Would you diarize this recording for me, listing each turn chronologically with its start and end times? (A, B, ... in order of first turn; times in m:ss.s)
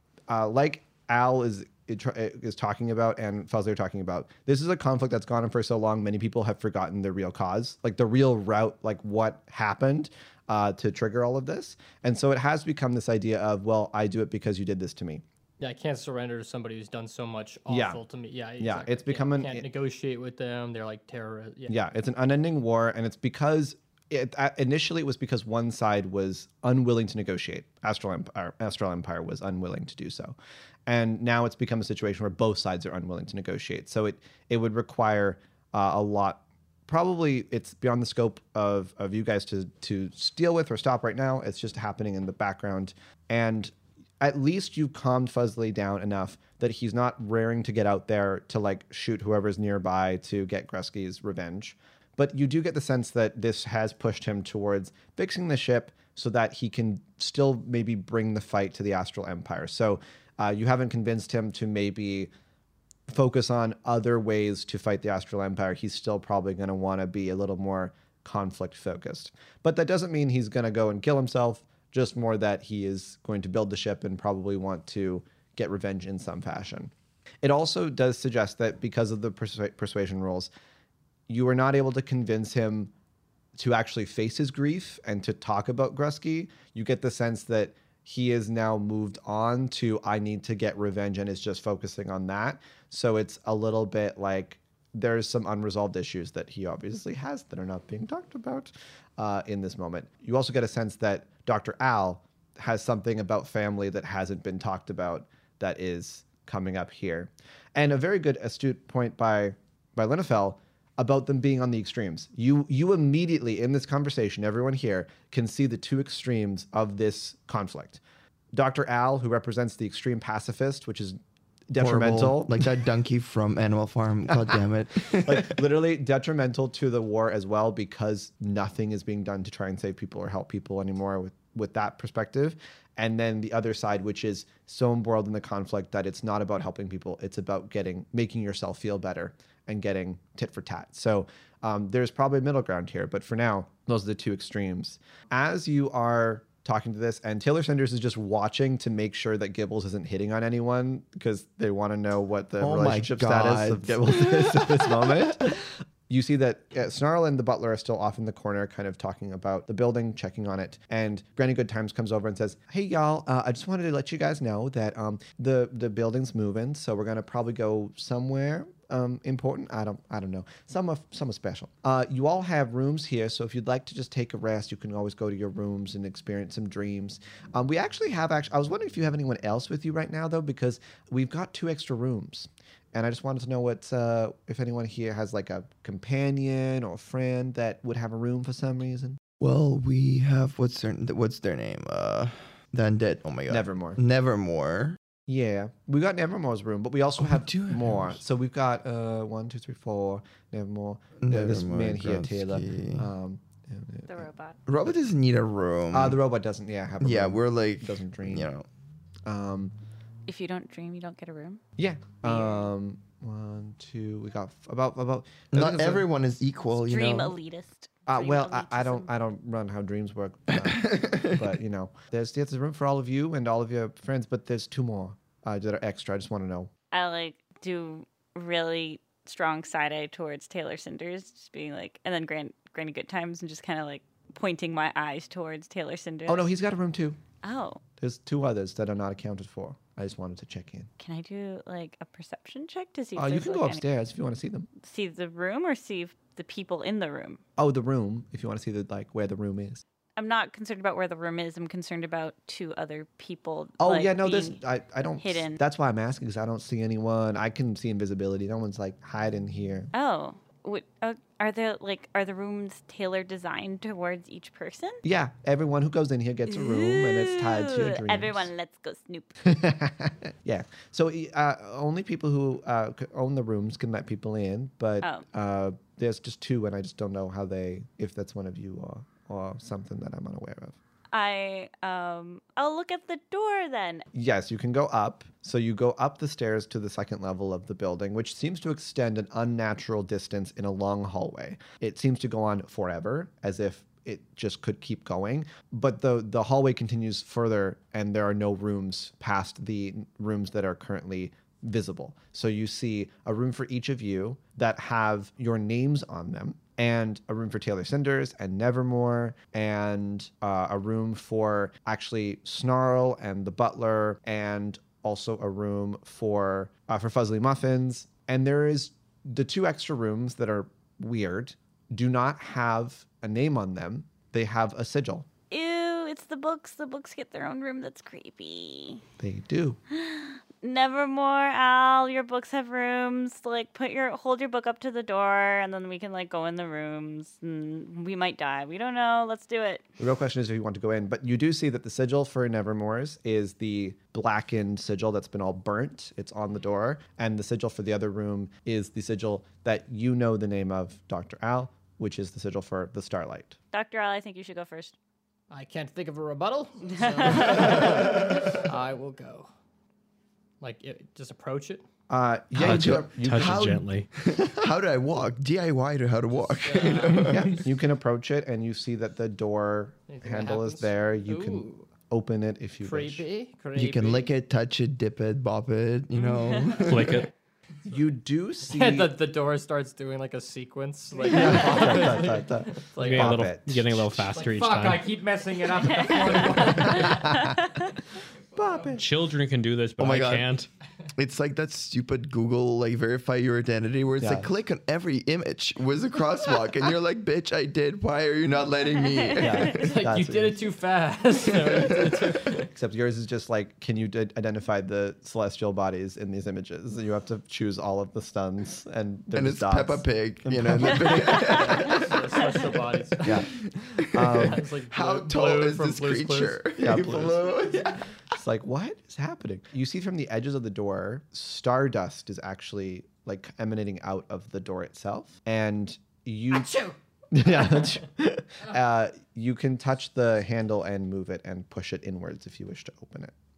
0:00.3-0:15.2 A
0:15.6-0:21.8 B
0:17.7-0:18.0 A
0:18.6-0:19.7 A
0:21.7-1:02.3 A
1:03.1-1:16.9 A
1:17.4-1:20.5 A
1:21.3-1:22.9 A
1:23.6-1:58.0 A
1:58.5-2:01.2 A
2:01.7-2:02.7 A
2:01.8-2:05.6 C
2:05.1-3:09.2 A
2:32.6-2:35.4 C
3:09.4-3:15.0 C
3:13.5-3:14.0 A
3:15.3-3:24.3 A
3:17.2-3:18.2 C
3:21.2-3:23.1 C
3:24.1-3:24.6 D
3:24.7-3:26.2 C
3:25.9-3:28.5 A
3:27.0-3:28.7 C
3:29.3-3:29.7 A
3:30.3-3:31.6 D
3:31.8-3:36.1 A
3:32.2-3:32.7 D
3:35.5-3:37.3 C
3:36.8-3:39.1 D
3:38.1-3:46.7 A
3:40.6-3:41.5 C
3:46.9-3:56.5 D
3:56.3-3:57.2 A
3:57.4-3:57.8 D
3:58.0-4:00.9 A
4:01.0-4:03.8 D
4:03.2-4:04.7 A
4:04.8-4:07.4 D
4:07.6-4:09.8 A
4:10.2-4:14.6 D
4:13.8-4:19.9 A
4:15.2-4:15.6 D
4:19.9-4:25.0 D
4:25.0-4:28.5 A
4:26.5-4:29.5 D
4:29.4-4:40.8 A
4:41.1-4:44.0 D
4:44.1-5:25.3 A
5:25.5-5:29.0 D
5:29.2-5:29.8 A
5:29.9-5:39.8 D
5:40.0-5:53.6 A
5:53.7-5:55.0 D
5:55.5-5:59.5 B
5:56.9-5:58.3 D
6:00.6-6:01.8 B
6:02.1-6:03.9 A
6:02.6-6:07.7 C
6:02.6-6:04.1 E
6:06.4-6:07.4 B
6:07.1-6:13.2 A
6:10.1-6:11.9 B
6:12.8-6:14.3 B
6:13.8-6:17.3 C
6:16.8-6:17.3 E
6:17.9-6:19.2 A
6:18.7-6:23.4 B
6:21.2-6:24.4 A
6:23.0-6:25.1 E
6:24.4-6:27.4 B
6:25.7-6:28.0 D
6:26.5-6:27.9 A
6:28.6-6:29.0 A
6:28.6-6:28.9 B
6:28.9-6:30.7 E
6:30.0-6:30.6 C
6:31.1-6:39.9 C
6:34.2-6:34.5 A
6:39.0-6:39.7 D
6:39.4-6:40.7 A
6:39.7-6:42.7 B
6:41.6-6:42.3 C
6:42.7-6:52.1 A
6:49.3-6:52.2 C
6:51.6-6:53.5 B
6:53.2-6:53.5 A
6:53.2-6:58.0 C
6:54.1-6:54.6 A
6:54.2-6:58.0 B
6:56.8-6:57.6 A
6:58.3-7:06.8 A
7:06.5-7:07.0 B
7:07.3-7:13.3 A
7:07.6-7:07.9 B